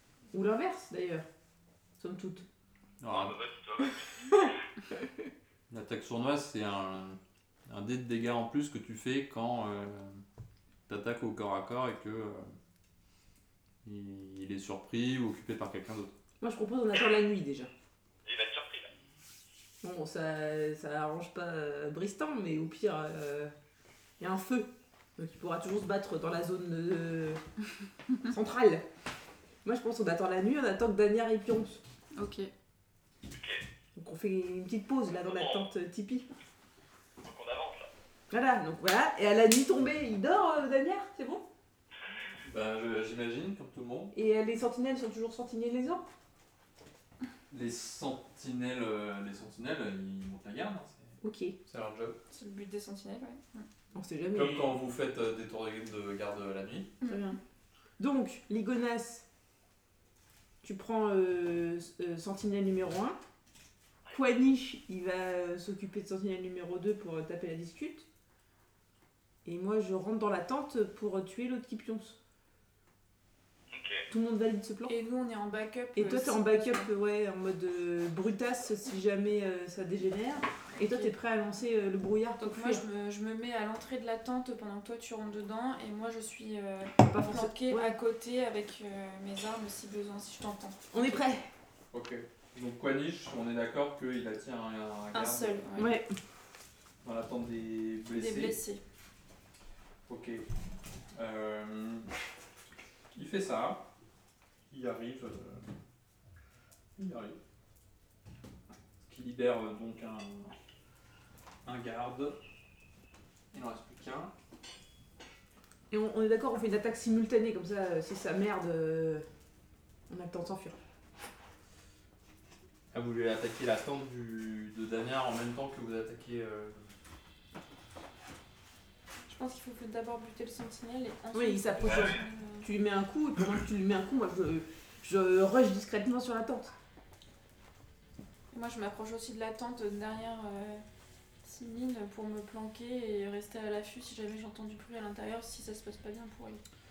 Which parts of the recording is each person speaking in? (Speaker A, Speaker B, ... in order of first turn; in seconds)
Speaker A: 0.3-1.3, 2.0-2.5, 16.4-17.7, 19.8-23.5, 24.2-27.4, 28.2-28.8, 29.6-31.8, 34.0-36.3, 38.3-41.5, 44.1-46.1, 51.2-51.6, 53.9-54.8, 57.0-57.4, 58.0-59.3, 60.6-63.2, 64.1-68.1, 69.5-72.2, 74.1-74.9, 76.0-82.8, 87.0-88.0, 90.9-91.5, 95.8-96.1, 115.9-119.3, 120.1-120.8, 131.3-136.7
Speaker B: 3.0-3.4, 5.7-10.2, 10.9-12.5, 13.8-16.1, 42.5-44.1, 47.5-52.2, 54.3-57.0, 91.9-95.7, 97.0-98.6, 100.1-100.5, 101.1-102.1, 103.1-103.8, 104.7-105.6, 107.0-107.4, 109.0-110.5, 111.7-112.4, 113.5-114.3, 122.9-126.8
Speaker C: 3.1-4.6, 18.2-18.9, 33.3-33.6, 35.1-35.7, 37.2-37.9, 73.7-74.1, 131.8-132.2
Speaker D: 32.1-32.5, 52.3-53.7, 57.0-57.4, 74.9-76.9, 80.8-81.1, 82.4-91.2, 95.1-96.0, 98.1-98.8, 129.3-132.7, 138.5-140.8, 141.4-146.6